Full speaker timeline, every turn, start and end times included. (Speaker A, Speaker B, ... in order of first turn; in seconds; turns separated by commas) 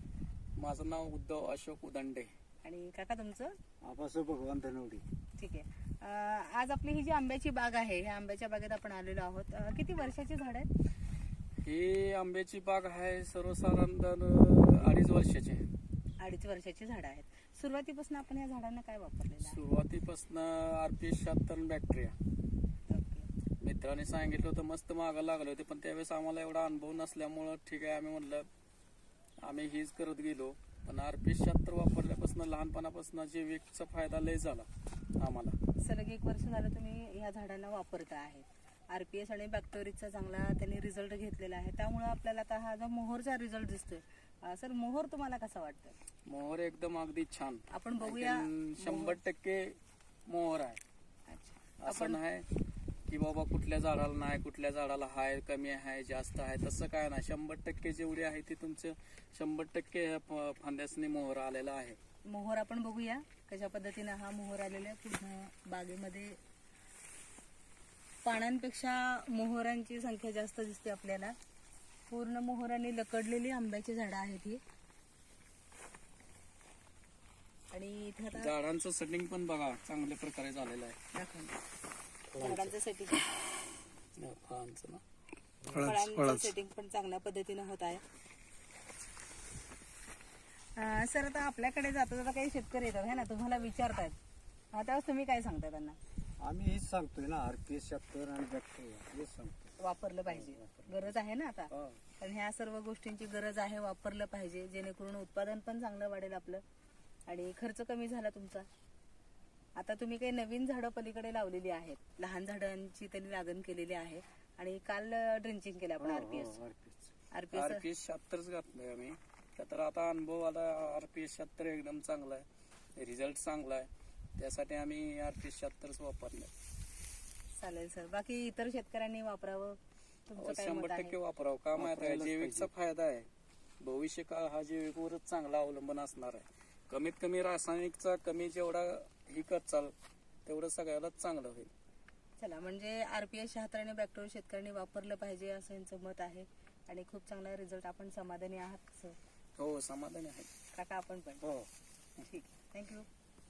Speaker A: 0.6-2.3, Speaker B: 2.6-3.5, Speaker C: 3.8-5.0, Speaker B: 5.4-10.7, Speaker A: 11.6-15.7, Speaker B: 16.2-19.6, Speaker A: 19.4-22.1, Speaker B: 22.9-23.3, Speaker A: 23.6-28.4, Speaker A: 29.4-34.7, Speaker A: 35.2-35.6, Speaker B: 35.8-46.0, Speaker A: 46.3-50.8, Speaker B: 47.7-49.2, Speaker B: 51.3-52.2, Speaker A: 51.8-52.5, Speaker A: 53.1-62.0, Speaker B: 62.3-66.4, Speaker B: 68.2-71.3, Speaker B: 72.1-74.6, Speaker B: 77.7-78.5, Speaker A: 78.3-81.0, Speaker B: 81.1-81.6, Speaker A: 82.3-82.7, Speaker B: 82.4-83.2, Speaker A: 84.2-85.0, Speaker B: 85.7-88.0, Speaker B: 90.8-94.2, Speaker B: 94.7-96.0, Speaker C: 96.4-99.7, Speaker B: 99.8-106.6, Speaker C: 100.3-101.1, Speaker C: 101.7-102.0, Speaker B: 107.3-108.7, Speaker B: 109.8-116.6, Speaker C: 116.0-117.1, Speaker B: 117.3-117.8, Speaker A: 117.5-122.4, Speaker A: 123.0-126.5, Speaker B: 127.6-129.8, Speaker B: 130.3-131.2, Speaker A: 130.4-133.3, Speaker C: 131.8-132.7, Speaker A: 133.8-139.9, Speaker A: 140.4-141.7, Speaker B: 142.4-149.2, Speaker A: 149.6-150.5, Speaker B: 150.7-151.5, Speaker C: 151.4-151.7, Speaker B: 152.2-153.1